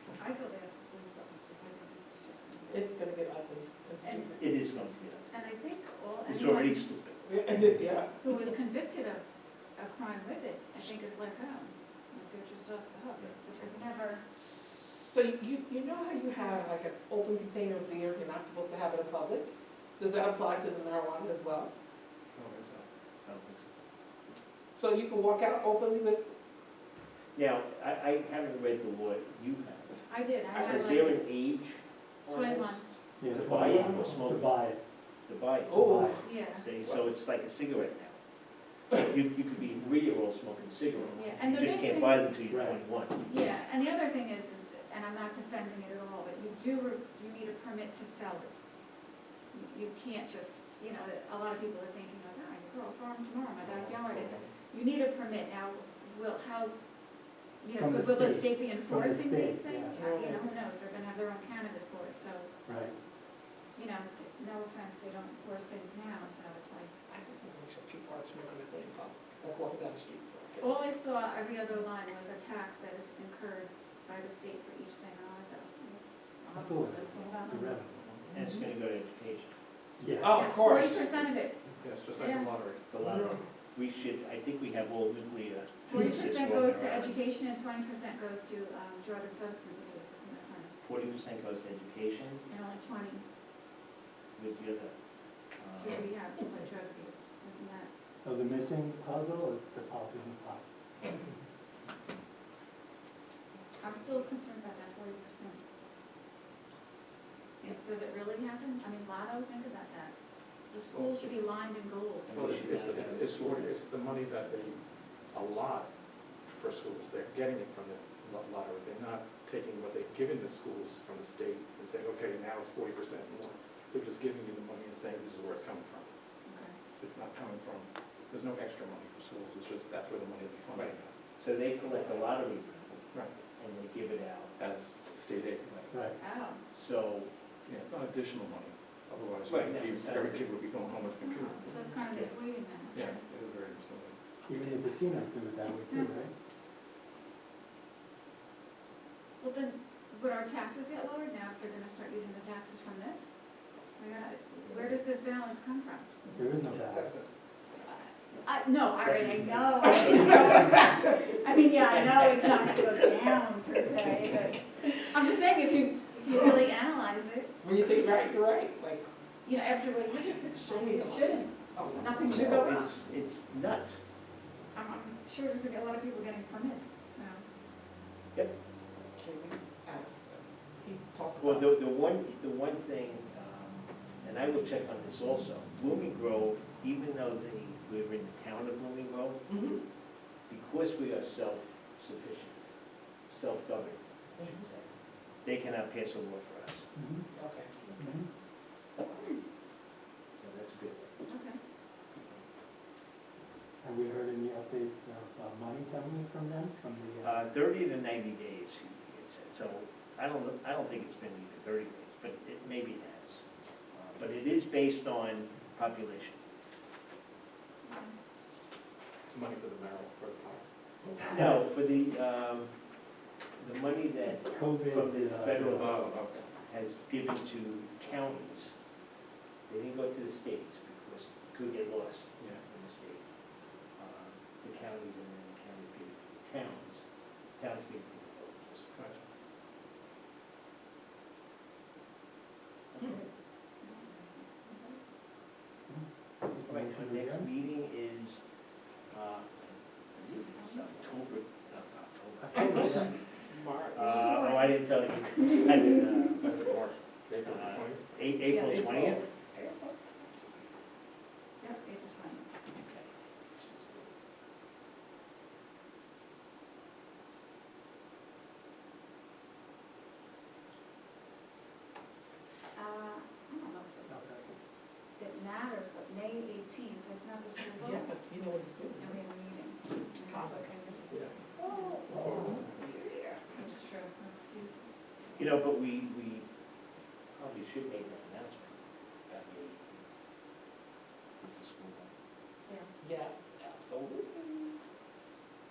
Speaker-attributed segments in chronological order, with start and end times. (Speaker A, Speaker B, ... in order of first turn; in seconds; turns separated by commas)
Speaker A: 0.2-2.9, Speaker B: 2.7-4.4, Speaker A: 4.0-4.3, Speaker C: 4.3-5.3, Speaker A: 5.3-6.8, Speaker C: 6.3-7.2, Speaker B: 7.2-8.2, Speaker A: 8.2-9.2, Speaker A: 9.8-14.2, Speaker B: 14.3-21.7, Speaker A: 16.4-16.7, Speaker D: 22.4-22.9, Speaker C: 23.2-23.7, Speaker B: 24.7-26.3, Speaker C: 27.4-30.0, Speaker A: 30.1-31.3, Speaker B: 30.5-31.0, Speaker C: 30.6-34.6, Speaker A: 32.3-32.9, Speaker E: 33.2-34.8, Speaker C: 35.3-38.2, Speaker B: 35.7-36.2, Speaker E: 35.8-36.2, Speaker A: 36.2-36.6, Speaker C: 38.9-43.5, Speaker D: 41.0-41.4, Speaker A: 41.1-42.3, Speaker E: 42.5-42.8, Speaker A: 43.3-48.5, Speaker A: 49.5-56.8, Speaker D: 53.6-54.5, Speaker A: 57.6-62.5, Speaker E: 57.8-60.0, Speaker B: 59.9-60.5, Speaker E: 62.7-63.0, Speaker A: 63.8-66.9, Speaker B: 67.1-70.7, Speaker A: 70.6-77.8, Speaker E: 76.5-77.9, Speaker D: 77.8-78.3, Speaker C: 78.3-79.5, Speaker E: 80.0-80.4, Speaker B: 80.2-81.1, Speaker A: 80.3-81.6, Speaker D: 81.8-83.3, Speaker A: 82.2-82.5, Speaker C: 82.9-87.2, Speaker B: 83.1-83.4, Speaker A: 85.9-90.8, Speaker C: 90.8-92.5, Speaker A: 92.5-93.2, Speaker C: 94.3-94.9, Speaker C: 95.6-96.1, Speaker A: 95.7-97.9, Speaker E: 98.2-100.6, Speaker B: 103.7-104.0, Speaker A: 103.8-105.6, Speaker A: 107.6-110.2, Speaker A: 110.7-112.6, Speaker D: 110.9-111.4, Speaker C: 112.3-113.8, Speaker D: 112.3-115.9, Speaker D: 116.5-126.1, Speaker A: 126.5-126.8, Speaker D: 127.0-131.1, Speaker C: 130.7-134.6, Speaker D: 134.6-135.7, Speaker C: 135.7-136.0, Speaker E: 135.9-136.2, Speaker A: 136.2-136.6, Speaker C: 136.6-137.3, Speaker D: 137.7-142.3, Speaker C: 139.5-140.5, Speaker A: 141.2-143.2, Speaker D: 142.9-144.2, Speaker E: 144.5-146.3, Speaker A: 149.4-153.3, Speaker A: 154.0-156.1, Speaker E: 156.3-157.1, Speaker B: 156.6-157.3, Speaker A: 157.8-167.5, Speaker C: 161.9-162.5, Speaker B: 167.6-169.1, Speaker A: 169.4-172.9, Speaker B: 170.3-172.5, Speaker C: 172.3-174.0, Speaker A: 174.8-177.4, Speaker B: 179.2-181.8, Speaker C: 181.4-189.4, Speaker B: 189.5-189.8, Speaker C: 190.5-192.6, Speaker C: 193.3-194.9, Speaker C: 195.4-196.9, Speaker E: 196.9-197.3, Speaker B: 197.3-197.7, Speaker E: 198.0-198.3, Speaker C: 200.4-201.2, Speaker A: 201.3-201.6, Speaker E: 203.8-207.4, Speaker C: 207.2-216.4, Speaker A: 217.8-218.1, Speaker D: 219.3-220.6, Speaker C: 221.2-222.7, Speaker C: 223.6-228.7, Speaker E: 224.5-226.0, Speaker D: 225.6-226.4, Speaker C: 229.7-233.2, Speaker D: 232.4-232.6, Speaker C: 234.0-237.1, Speaker C: 237.6-238.9, Speaker D: 238.9-239.2, Speaker A: 243.8-245.0, Speaker E: 245.9-247.5, Speaker C: 246.6-248.4, Speaker C: 249.1-253.2, Speaker A: 250.2-250.8, Speaker E: 252.4-253.1, Speaker B: 252.6-254.4, Speaker C: 253.9-256.5, Speaker A: 254.0-254.7, Speaker D: 256.4-258.1, Speaker C: 257.5-259.2, Speaker B: 258.5-260.0, Speaker A: 261.6-262.5, Speaker C: 262.8-264.2, Speaker A: 272.7-274.2, Speaker E: 274.1-274.4, Speaker A: 275.2-278.1, Speaker B: 277.6-279.2, Speaker A: 279.0-281.1, Speaker B: 280.2-283.4, Speaker A: 281.7-282.0, Speaker E: 282.1-282.6, Speaker A: 283.5-284.9, Speaker C: 285.4-286.4, Speaker C: 287.3-290.0, Speaker C: 291.4-292.1, Speaker B: 293.0-294.8